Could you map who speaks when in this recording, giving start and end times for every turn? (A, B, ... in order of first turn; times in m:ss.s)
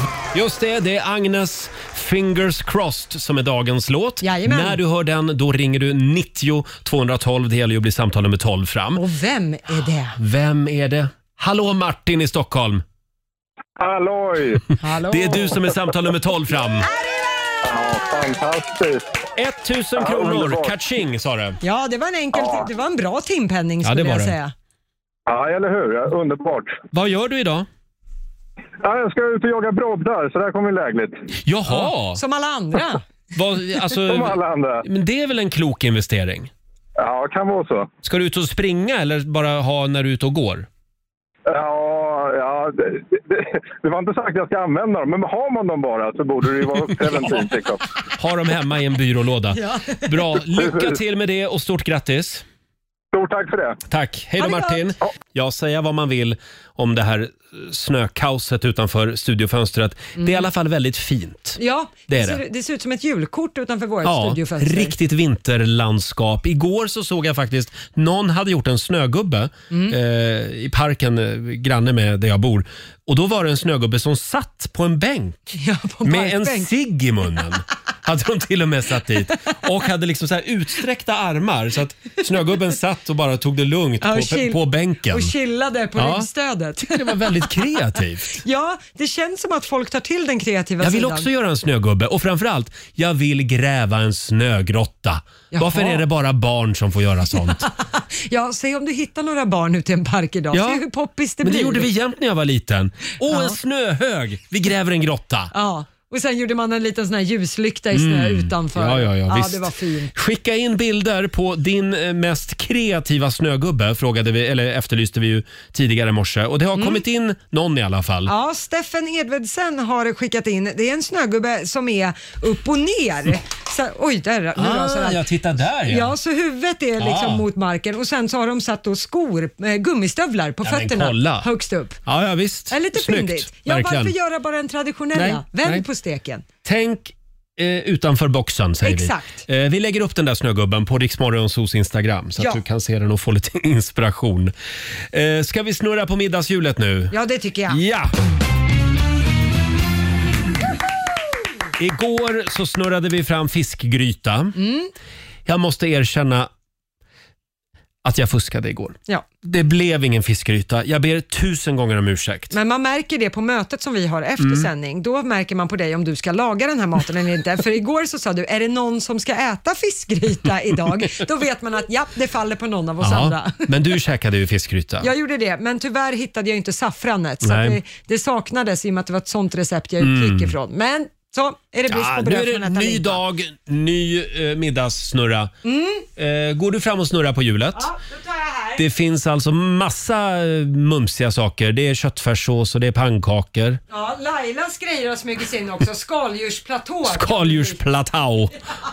0:00.3-0:09.0 A
0:04.2-0:04.8 B
0:08.9-0:10.2 B
0:10.2-0:12.8 A
0:13.8-0:14.6 C
0:14.8-0:15.6 B
0:15.1-0:16.9 A
0:17.1-0:17.7 B
0:17.6-0:19.0 C
0:19.4-0:21.6 A
0:20.0-0:20.7 C
0:21.6-0:24.5 B
0:22.3-0:22.6 C
0:23.8-0:24.4 A
0:25.2-0:26.8 C
0:26.9-0:27.6 A
0:28.8-0:31.1 C
0:31.4-0:32.2 A
0:31.7-0:33.0 B
0:33.3-0:36.5 A
0:34.1-0:34.8 C
0:37.0-0:37.9 C
0:38.0-0:40.6 A
0:41.5-0:47.8 C
0:46.9-0:47.5 A
0:48.2-0:52.4 A
0:49.5-0:50.3 B
0:50.5-0:51.0 C
0:53.1-0:53.8 C
0:53.9-1:02.4 A
0:54.4-0:54.9 B
1:00.2-1:00.5 B
1:01.6-1:05.0 B
1:04.0-1:25.3 A
1:09.7-1:10.0 B
1:15.6-1:16.7 B
1:24.0-1:27.7 B
1:26.0-1:28.4 A
1:28.3-1:31.3 B
1:30.8-1:37.7 A
1:35.5-1:36.0 B
1:37.3-1:41.9 B
1:40.5-1:40.8 A
1:41.4-1:45.5 A
1:43.3-1:43.6 B
1:45.5-1:50.1 B
1:47.9-1:58.3 A
1:56.8-1:57.0 B
1:58.3-2:05.2 B
2:04.6-2:06.1 A
2:05.8-2:12.0 B
2:07.0-2:07.5 A
2:10.6-2:11.5 A
2:12.0-2:14.1 A
2:12.7-2:16.4 B
2:15.1-2:15.8 A
2:16.6-2:24.5 A
2:18.8-2:19.4 B
2:22.4-2:22.6 B
2:25.1-2:27.1 A
2:27.1-2:27.8 B
2:27.7-2:28.1 A
2:31.8-2:34.6 A
2:34.5-2:34.9 B
2:35.4-2:36.5 A
2:38.0-2:42.5 A
2:42.5-2:54.0 B
2:44.4-2:44.7 A
2:53.0-2:55.1 A
2:55.0-3:03.2 B
2:57.4-2:57.8 A
3:00.0-3:00.5 A
3:01.9-3:05.5 A
3:05.6-3:06.0 B
3:06.2-3:07.9 A
3:07.7-3:08.9 B
3:08.8-3:13.8 A
3:13.9-3:17.8 B
3:17.0-3:18.6 A